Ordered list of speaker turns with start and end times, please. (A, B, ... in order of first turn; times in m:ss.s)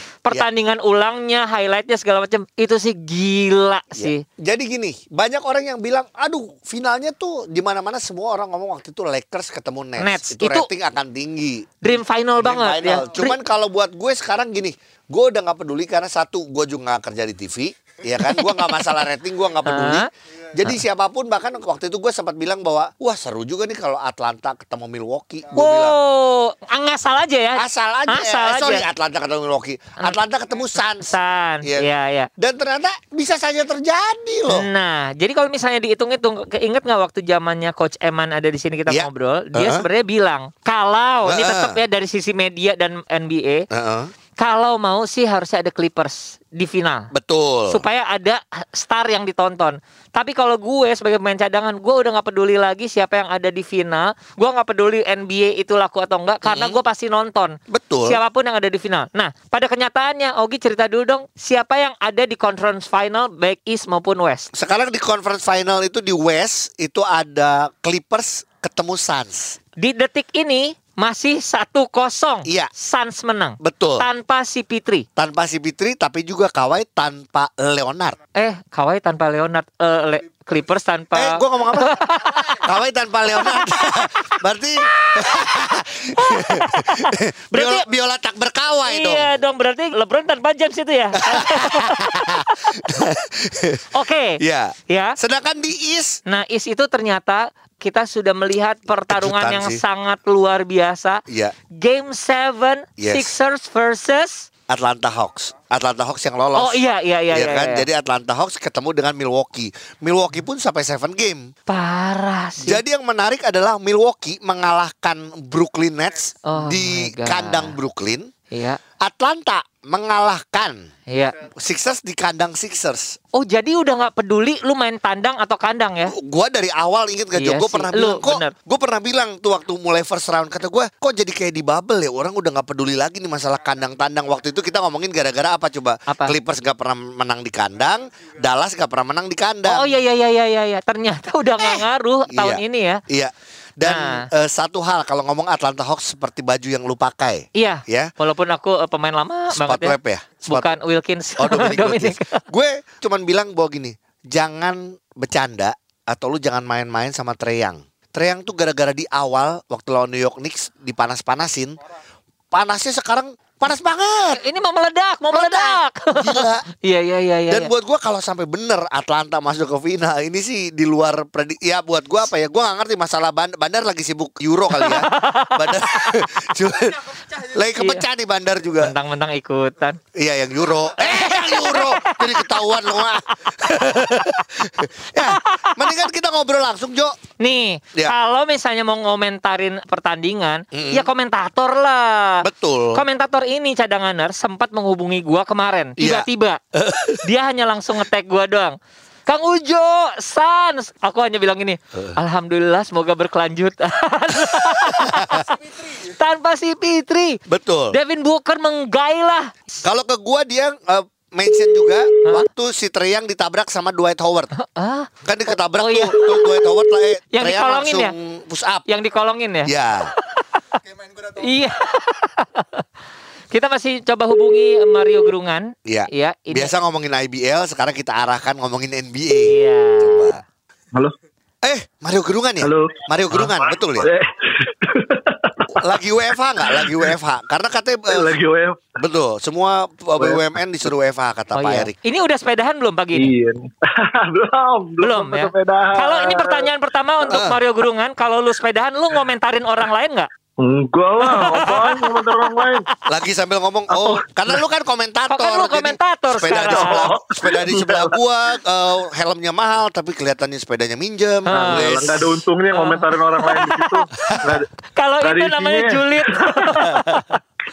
0:00.2-0:04.2 A
0:04.0-0:11.8 B
0:10.0-0:10.7 A
0:11.8-0:13.4 A
0:12.4-0:25.9 B
0:18.2-0:19.0 A
0:19.6-0:20.1 A
0:25.5-0:28.8 A
0:27.6-0:31.1 B
0:31.0-0:32.3 A
0:32.4-0:34.7 B
0:34.5-0:43.6 A
0:38.9-0:39.8 B
0:41.3-0:41.8 B
0:43.7-0:44.1 B
0:44.4-0:47.1 A
0:47.1-0:47.8 B
0:47.7-1:04.5 A
0:56.4-0:56.8 B
0:57.7-0:58.2 B
1:04.5-1:09.6 B
1:09.8-1:15.0 A
1:12.4-1:12.7 B
1:13.6-1:14.0 B
1:15.2-1:18.2 B
1:18.4-1:22.6 A
1:21.1-1:29.3 B
1:23.4-1:24.1 A
1:26.2-1:27.8 A
1:28.8-1:32.5 A
1:31.2-1:33.8 B
1:33.9-1:34.4 A
1:34.4-1:36.2 B
1:34.9-1:35.2 A
1:36.2-1:44.5 A
1:39.1-1:39.8 B
1:41.3-1:41.5 B
1:43.0-1:43.3 B
1:44.7-1:46.8 B
1:46.6-1:47.8 A
1:47.3-1:51.5 B
1:51.7-1:52.8 A
1:52.6-1:58.3 B
1:56.4-1:57.7 A
1:58.5-1:58.8 A
1:59.0-2:00.9 B
2:01.1-2:01.3 A
2:01.5-2:03.2 B
2:03.3-2:06.1 A
2:06.1-2:19.9 B
2:07.4-2:08.5 A
2:16.1-2:16.3 A
2:19.7-2:23.0 A
2:21.6-2:28.1 B
2:23.8-2:24.2 A
2:27.5-2:30.0 A
2:29.5-2:30.7 B
2:30.5-2:32.4 A
2:31.4-2:41.8 B
2:42.5-2:44.4 B
2:44.3-2:47.7 A
2:45.3-2:46.6 B
2:47.5-2:58.9 B
2:54.7-2:56.2 A
2:57.8-2:58.0 A
2:58.8-3:00.0 A
3:00.1-3:07.2 B
3:01.0-3:03.1 A
3:03.7-3:04.2 A
3:05.2-3:05.9 A
3:07.4-3:16.6 A
3:10.7-3:11.1 B
3:12.4-3:13.0 B
3:16.0-3:17.2 B
3:17.2-3:18.7 A
3:19.3-3:27.4 A
3:24.4-3:25.4 B
3:27.5-3:28.0 B
3:27.9-3:29.8 A
3:29.8-3:34.5 B
3:34.5-3:36.8 A
3:35.2-3:38.9 B
3:37.3-3:38.1 A
3:38.9-3:40.4 A
3:39.6-3:40.1 B
3:41.2-3:42.8 A
3:43.5-3:46.7 A
3:45.8-3:50.4 B
3:49.4-3:50.3 A
3:51.6-3:54.1 B
3:52.6-3:55.9 C
3:55.7-3:58.3 B
3:56.6-3:57.1 C
3:58.1-3:58.8 C
3:59.0-4:01.9 B
4:01.6-4:03.3 A
4:03.1-4:06.7 C
4:05.0-4:10.3 A
4:07.3-4:07.6 B
4:10.6-4:12.8 C
4:11.2-4:12.8 A
4:13.1-4:22.4 B
4:13.9-4:14.6 C
4:15.3-4:17.1 A
4:16.5-4:18.2 C
4:21.5-4:22.0 A
4:21.5-4:24.7 C
4:22.7-4:24.1 A
4:24.9-4:27.4 A
4:25.2-4:27.0 C